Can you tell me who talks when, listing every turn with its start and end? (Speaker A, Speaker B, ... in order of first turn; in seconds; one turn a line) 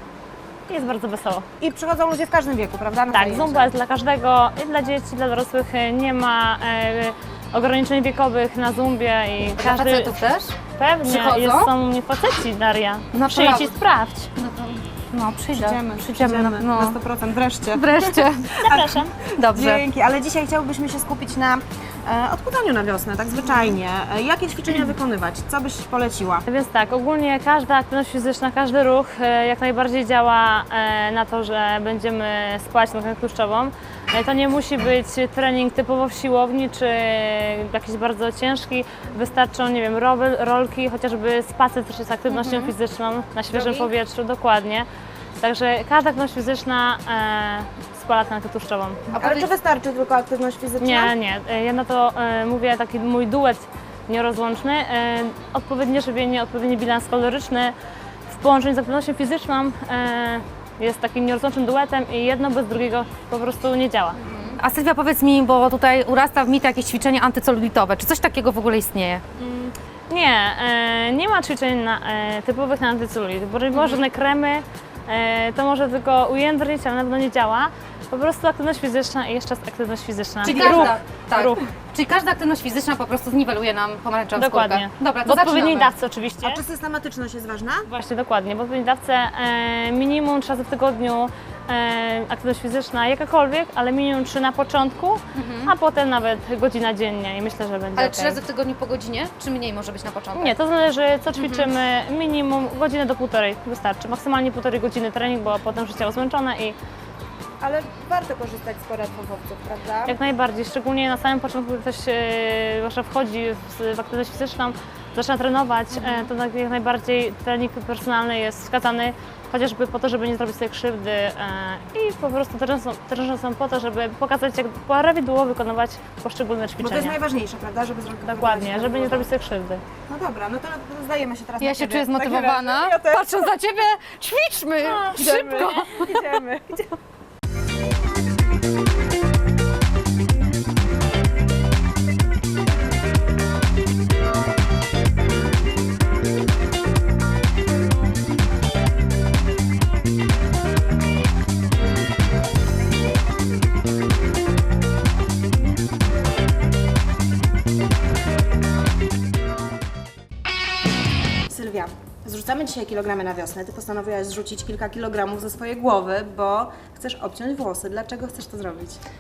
Speaker A: 0.7-1.5
Speaker B: 1.6-3.7
Speaker A: 3.1-10.2
Speaker C: 9.6-11.7
Speaker A: 10.8-14.3
Speaker C: 13.1-13.8
Speaker C: 14.3-17.0
Speaker B: 15.5-26.4
Speaker C: 17.7-19.9
Speaker A: 18.6-19.1
Speaker A: 26.5-49.0
Speaker C: 42.3-42.7
Speaker B: 43.5-43.9
Speaker C: 49.1-49.5
Speaker B: 49.2-51.1
Speaker A: 50.8-57.8
Speaker A: 58.3-64.2
Speaker C: 64.2-69.2
Speaker A: 69.4-81.7
Speaker C: 73.7-74.0
Speaker C: 80.4-85.9
Speaker B: 80.5-81.0
Speaker A: 84.3-86.6
Speaker B: 86.4-87.9
Speaker A: 87.9-98.4
Speaker C: 95.3-95.7
Speaker C: 98.0-100.5
Speaker A: 100.3-106.8
Speaker C: 101.4-101.7
Speaker B: 107.6-110.2
Speaker A: 110.1-127.2
Speaker C: 116.0-116.3
Speaker B: 126.8-129.3
Speaker A: 128.3-129.8
Speaker B: 130.1-133.5
Speaker C: 131.6-136.2
Speaker A: 134.8-135.8
Speaker B: 135.1-137.0
Speaker B: 161.5-169.0